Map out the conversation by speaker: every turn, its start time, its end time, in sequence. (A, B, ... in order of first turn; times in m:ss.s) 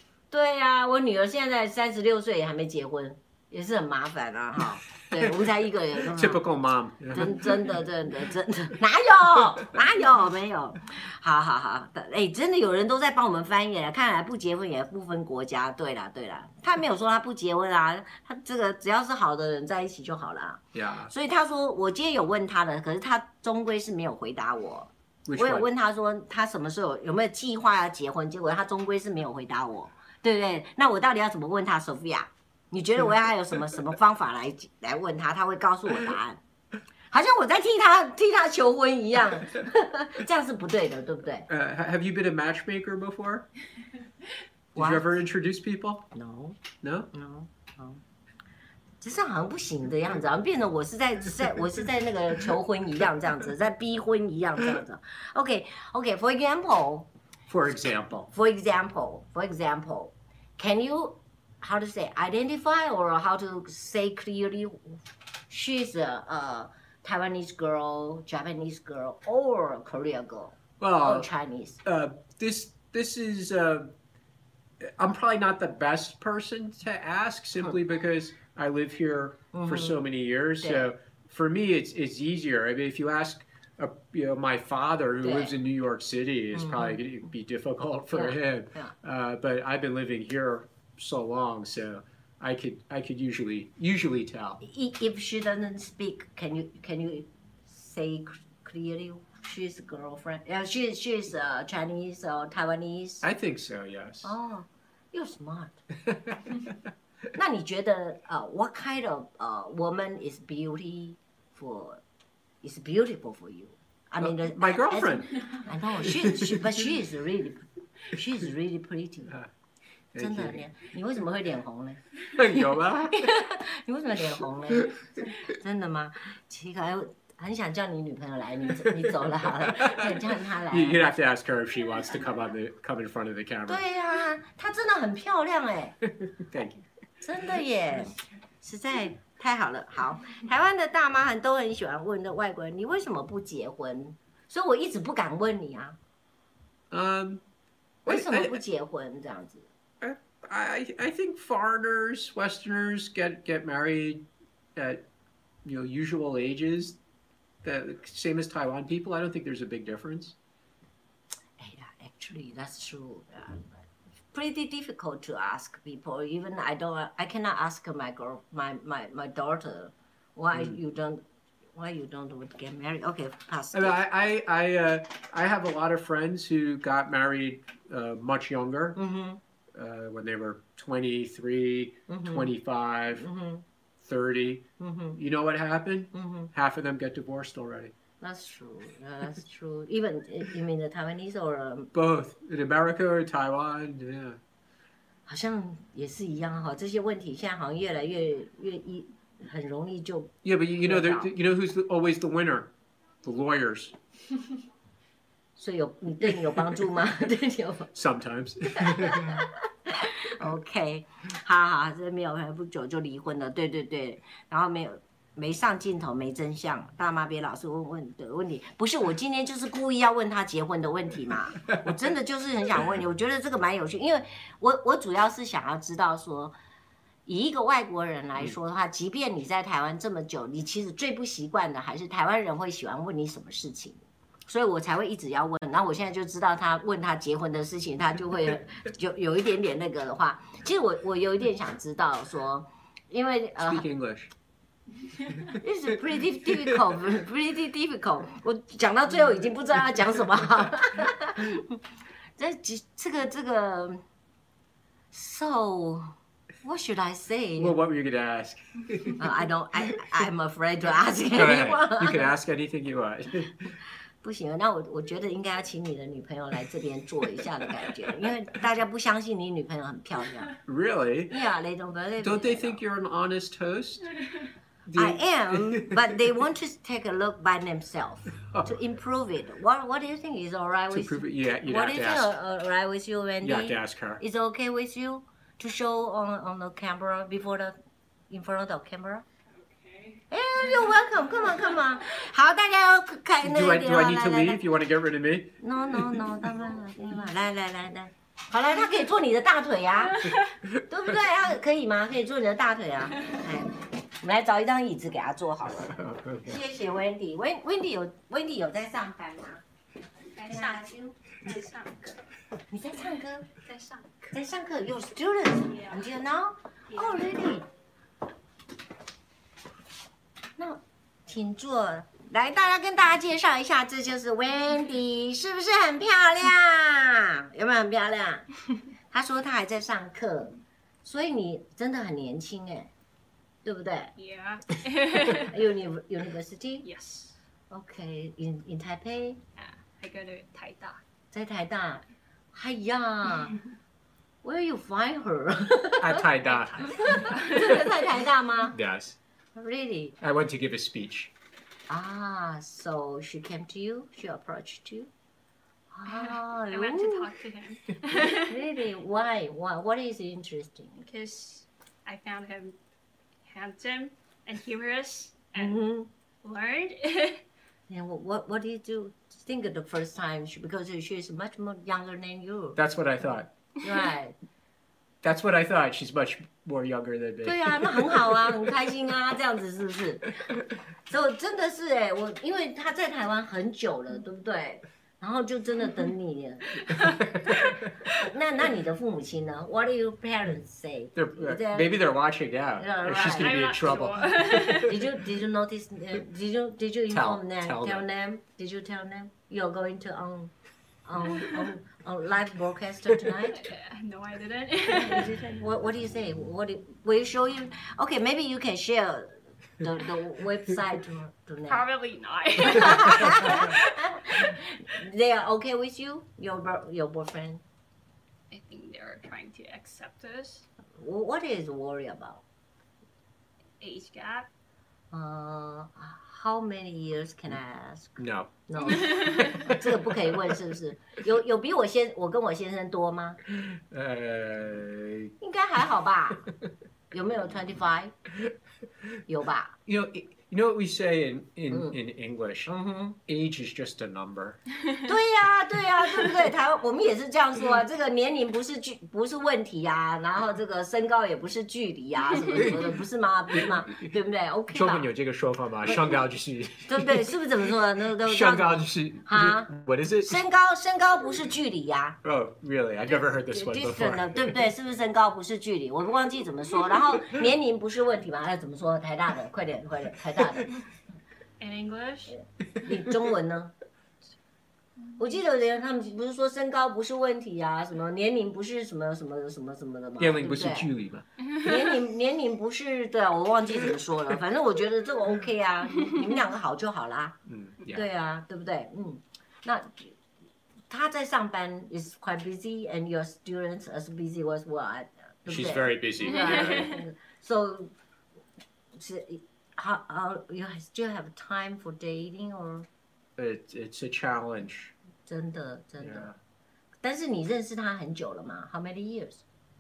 0:00.3-0:06.5 A
0:06.0-0:07.7 B
0:07.1-0:36.4 A
0:20.7-0:21.1 B
0:25.3-0:25.7 B
0:37.1-0:41.5 A
0:41.5-0:43.5 B
0:44.8-0:46.1 B
0:44.8-0:45.2 A
0:46.1-0:46.6 A
0:46.8-0:47.1 B
0:47.1-0:48.0 A
0:49.0-0:57.1 A
0:57.5-0:58.3 B
0:58.3-1:11.8 A
1:10.8-1:11.3 B
1:11.8-1:13.9 B
1:14.8-1:34.6 B
1:19.5-1:20.0 A
1:20.6-1:20.9 A
1:25.2-1:25.5 A
1:26.5-1:27.0 A
1:28.1-1:28.9 A
1:34.6-1:43.3 A
1:43.2-1:44.3 B
1:44.2-1:45.8 A
1:46.1-1:46.7 B
1:47.3-1:52.0 A
1:52.6-1:59.4 A
1:54.2-1:55.3 B
1:56.0-1:56.9 B
2:00.1-2:00.6 B
2:00.2-2:11.1 A
2:02.3-2:03.3 B
2:04.7-2:05.2 B
2:08.8-2:13.8 B
2:13.7-2:16.0 A
2:16.2-2:16.9 B
2:17.2-2:26.0 A
2:26.9-2:27.4 B
2:28.0-2:29.7 A
2:28.1-2:28.6 B
2:30.0-2:35.0 B
2:35.6-2:37.0 B
2:37.6-2:40.4 B
2:41.6-2:51.2 A
2:51.8-2:54.0 A
2:53.7-2:59.0 B
2:59.0-2:59.4 A
2:59.7-3:03.3 B
3:02.1-3:02.5 A
3:03.2-3:03.6 A
3:04.0-3:07.9 B
3:04.8-3:05.2 A
3:06.1-3:06.5 A
3:08.2-3:11.9 A
3:11.9-3:14.4 B
3:15.3-3:21.3 A
3:20.4-3:22.7 B
3:23.2-3:24.0 B
3:25.6-3:27.9 A
3:27.9-3:29.5 B
3:28.7-3:46.6 A
3:47.3-4:03.9 A
4:03.6-4:04.3 B
4:05.5-4:11.8 A
4:12.4-4:14.0 A
4:15.1-4:17.8 A
4:17.6-4:19.3 B
4:19.2-4:22.3 A
4:21.3-4:23.8 B
4:24.2-4:30.6 A
4:30.6-4:31.4 B
4:31.3-4:32.8 A
4:32.2-4:34.1 B
4:34.9-4:36.4 B
4:35.0-4:47.8 A
4:40.9-4:42.4 B
4:43.4-4:44.2 B
4:48.3-4:49.2 A
4:49.6-4:51.8 C
4:50.3-4:54.6 A
4:53.4-4:56.3 B
4:55.6-5:09.6 A
5:05.9-5:06.6 B
5:10.4-5:12.2 C
5:10.5-5:11.2 A
5:12.7-5:13.5 A
5:13.6-5:14.3 C
5:14.3-5:17.7 A
5:15.7-5:16.1 C
5:16.9-5:17.4 C
5:20.6-5:28.5 A
5:29.1-5:32.9 A
5:33.6-5:34.1 A
5:34.2-5:35.6 C
5:35.3-5:36.9 A
5:36.8-5:37.4 C
5:37.7-5:39.4 A
5:39.6-5:41.0 C
5:41.3-5:43.6 A
5:44.4-5:46.2 A
5:46.0-5:47.1 B
5:46.4-5:48.0 C
5:46.9-5:48.8 A
5:48.7-5:49.2 B
5:49.6-5:50.2 A
5:50.2-5:51.3 B
5:51.9-5:55.1 A
5:55.9-5:57.3 A
5:56.1-5:58.6 C
5:58.1-6:01.1 A
6:01.0-6:02.8 C
6:03.4-6:05.8 C
6:05.6-6:06.1 A
6:06.4-6:07.4 C
6:07.9-6:12.8 A
6:12.8-6:13.5 B
6:13.8-6:14.4 A
6:15.2-6:18.7 B
6:17.4-6:32.0 A
6:27.0-6:28.2 B
6:31.2-6:34.9 B
6:32.8-6:33.7 A
6:33.2-6:35.2 C
6:34.8-6:40.5 A
6:37.1-6:38.1 B
6:41.0-6:43.7 A
6:41.4-6:41.7 C
6:43.4-6:45.4 C
6:44.9-6:51.8 A
6:51.7-6:53.9 C
6:52.6-6:57.6 A
6:58.5-7:00.7 C
7:01.0-7:02.4 A
7:03.8-7:04.5 C
7:05.1-7:13.4 A
7:08.2-7:08.5 B
7:08.8-7:09.6 C
7:09.4-7:10.6 B
7:13.5-7:15.3 B
7:15.4-7:16.5 A
7:17.1-7:18.2 A
7:19.3-7:19.8 A
7:19.9-7:22.7 B
7:21.7-7:22.0 A
7:22.7-7:23.2 A
7:23.3-7:24.6 B
7:25.0-7:35.1 A
7:32.5-7:32.9 B
7:33.5-7:34.1 B
7:34.7-7:37.3 B
7:35.9-7:36.2 A
7:36.8-7:39.7 A
7:38.2-7:40.4 B
7:40.2-7:42.2 A
7:42.2-7:44.7 B
7:43.5-7:50.8 A
7:51.6-7:52.4 C
7:52.3-7:53.7 A
7:55.2-8:00.9 A
8:00.2-8:01.3 B
8:01.5-8:01.9 C
8:01.6-8:07.4 A
8:07.5-8:08.1 B
8:07.9-8:10.2 A
8:10.9-8:17.9 A
8:15.5-8:17.0 B
8:16.2-8:17.0 C
8:19.0-8:22.9 A
8:23.4-8:24.9 B
8:25.3-8:26.3 A
8:26.0-8:26.3 B
8:27.0-8:29.4 A